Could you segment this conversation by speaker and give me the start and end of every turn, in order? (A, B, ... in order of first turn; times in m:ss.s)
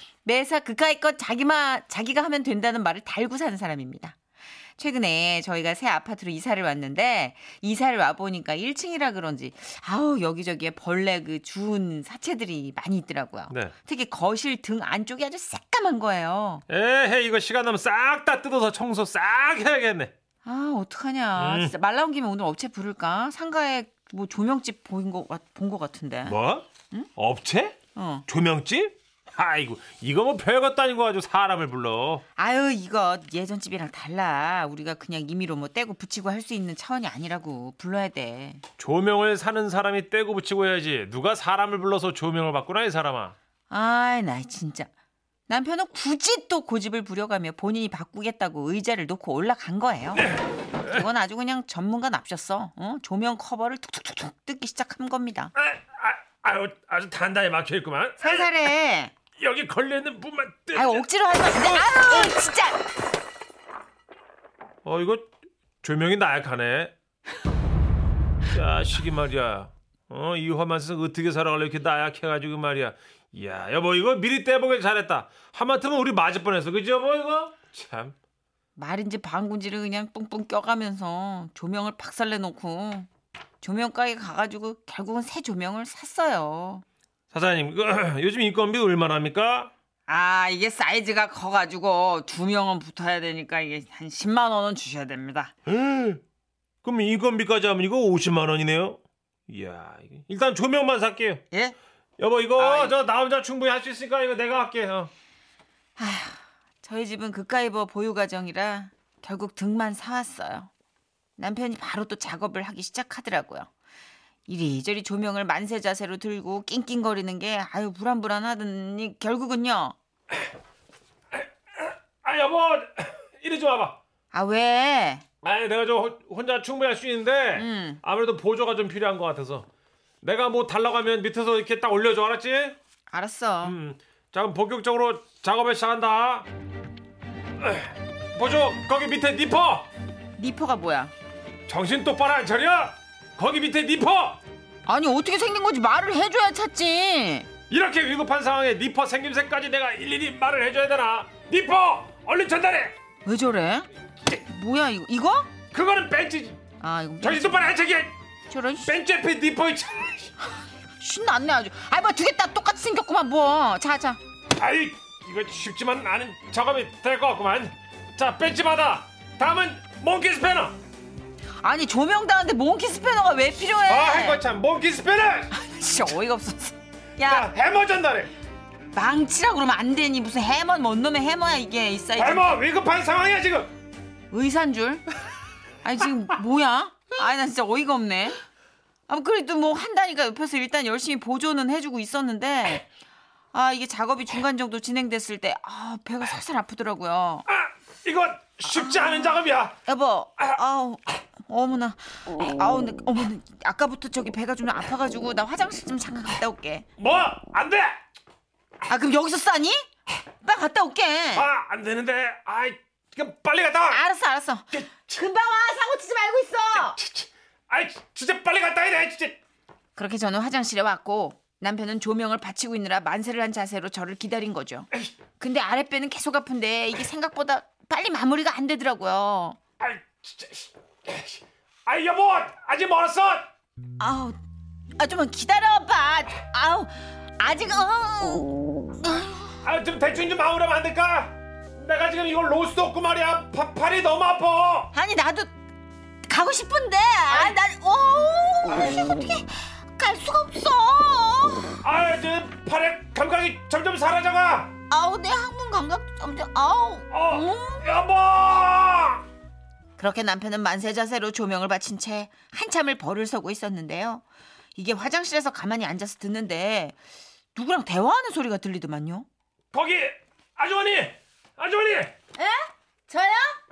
0:00.2-0:04.2 A
0:04.8-0:16.6 A
0:13.5-0:13.8 B
0:16.7-0:20.1 B
0:20.4-0:26.4 A
0:21.4-0:21.8 B
0:26.2-0:32.2 B
0:28.0-0:28.3 A
0:32.4-0:38.6 A
0:38.8-0:43.4 B
0:43.7-0:44.9 A
0:45.5-0:55.5 A
0:50.1-0:51.0 B
0:55.6-0:58.5 B
0:58.2-0:59.1 A
0:59.4-1:02.4 B
1:00.7-1:02.8 A
1:04.8-1:06.9 B
1:08.5-1:18.2 B
1:18.8-1:23.1 A
1:23.6-1:26.8 A
1:27.3-1:29.7 B
1:30.1-1:35.5 A
1:35.7-1:36.2 B
1:36.8-1:41.4 B
1:41.5-1:41.8 A
1:42.2-1:45.1 B
1:42.6-1:43.0 A
1:46.0-1:50.7 A
1:51.4-1:53.7 A
1:54.5-2:00.0 A
2:01.3-2:04.0 B
2:04.3-2:05.2 A
2:05.4-2:09.7 B
2:07.5-2:08.0 A
2:10.2-2:12.8 B
2:13.1-2:13.8 A
2:13.6-2:16.5 B
2:17.6-2:19.9 B
2:20.4-2:21.1 A
2:21.7-2:24.4 B
2:24.9-2:27.5 A
2:27.7-2:33.0 B
2:33.2-2:35.5 A
2:35.7-2:36.6 B
2:36.8-2:37.7 A
2:37.2-2:38.1 B
2:38.5-2:38.9 A
2:38.8-2:40.3 B
2:41.0-2:44.2 A
2:44.5-2:50.8 B
2:51.6-2:54.4 A
2:53.9-2:55.5 B
2:55.5-2:57.5 A
2:57.2-2:58.3 B
2:58.9-3:02.5 A
3:02.2-3:03.7 B
3:04.3-3:05.1 A
3:05.8-3:08.4 A
3:09.1-3:12.9 A
3:13.5-3:17.5 A
3:17.5-3:19.8 B
3:19.8-3:26.9 A
3:27.0-3:28.0 B
3:28.9-3:29.9 A
3:30.4-3:31.5 A
3:31.3-3:34.0 B
3:33.9-3:37.0 A
3:34.7-3:35.2 B
3:36.7-3:39.4 B
3:40.0-3:49.6 A
3:49.8-3:53.5 B
3:54.0-3:54.4 A
3:55.0-3:59.6 A
3:59.6-4:04.9 B
4:04.9-4:05.5 A
4:06.3-4:11.8 A
4:11.8-4:14.7 B
4:14.9-4:17.9 A
4:17.1-4:19.2 B
4:20.0-4:24.2 A
4:24.8-4:27.0 A
4:27.6-4:29.3 A
4:29.7-4:32.1 B
4:32.4-4:33.6 A